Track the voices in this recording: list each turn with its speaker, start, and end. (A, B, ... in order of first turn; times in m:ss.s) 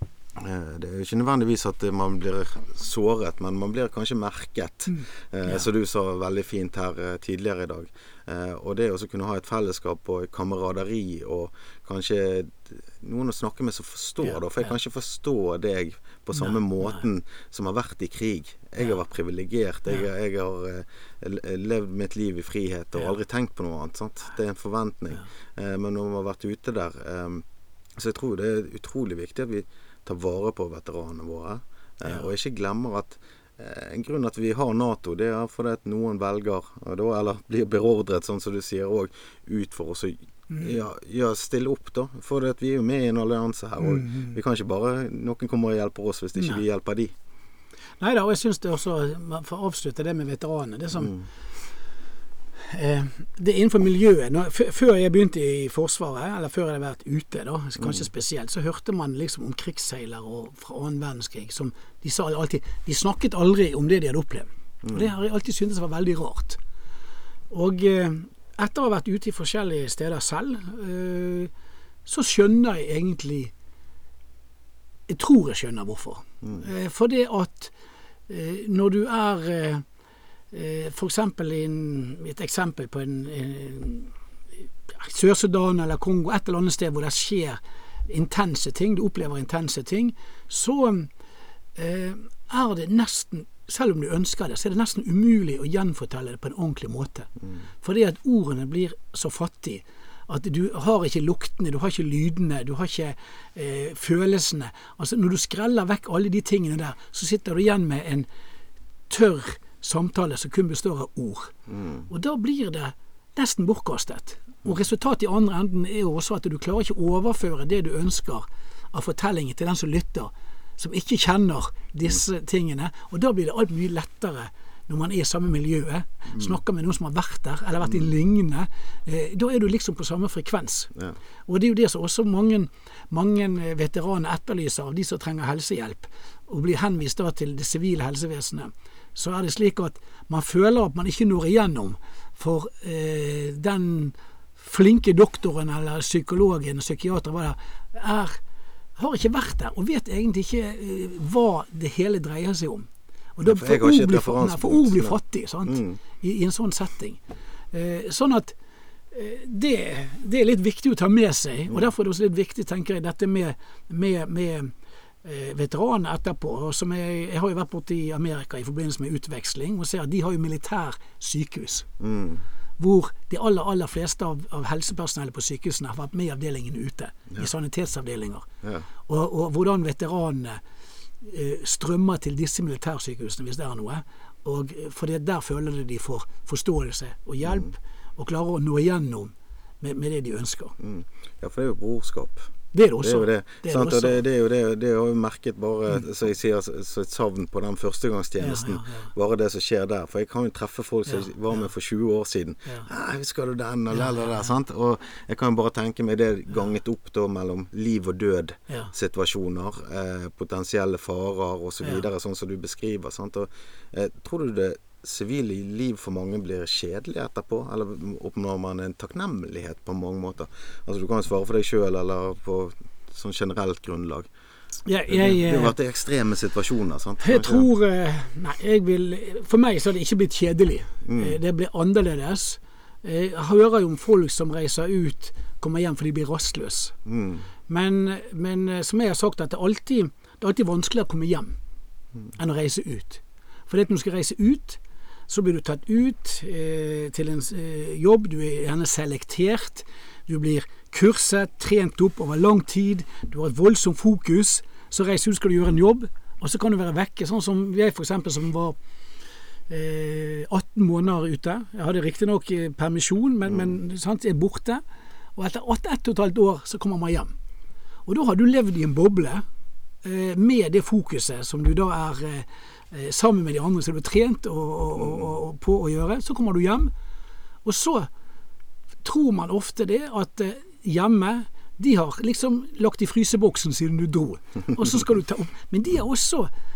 0:00.4-0:27.4 A
0:05.0-0:05.6 B
0:16.4-0:17.0 B
0:28.0-0:47.1 A
0:43.8-0:44.4 B
0:48.0-0:51.2 B
0:51.0-0:51.2 A
0:52.6-1:06.6 B
1:07.5-1:11.5 B
1:12.1-1:13.5 B
1:15.1-1:17.7 B
1:18.3-1:19.8 B
1:20.5-1:24.1 B
1:24.9-1:31.1 B
1:31.8-1:37.3 B
1:37.8-1:48.3 B
1:49.1-1:51.5 B
1:51.7-1:52.1 A
1:52.1-2:10.9 B
2:11.5-2:28.4 B
2:29.0-2:37.2 B
2:33.4-2:36.0 A
2:37.7-2:38.6 B
2:39.1-2:51.9 B
2:52.0-2:52.4 A
2:52.8-2:58.5 B
2:58.6-2:58.9 A
2:59.1-3:00.6 B
3:01.2-3:10.8 B
3:10.8-3:12.5 A
3:12.7-3:14.2 B
3:13.0-3:44.3 A
3:18.4-3:19.1 B
3:24.0-3:24.3 B
3:44.9-3:45.8 B
3:45.1-3:47.7 A
3:47.2-3:57.0 B
3:51.0-3:51.4 A
3:57.0-3:57.5 A
3:57.7-4:01.6 B
4:02.4-4:18.8 B
4:19.7-4:24.8 B
4:25.4-4:27.3 B
4:28.1-4:29.4 B
4:30.0-4:36.9 B
4:37.6-4:38.1 B
4:39.0-4:46.5 B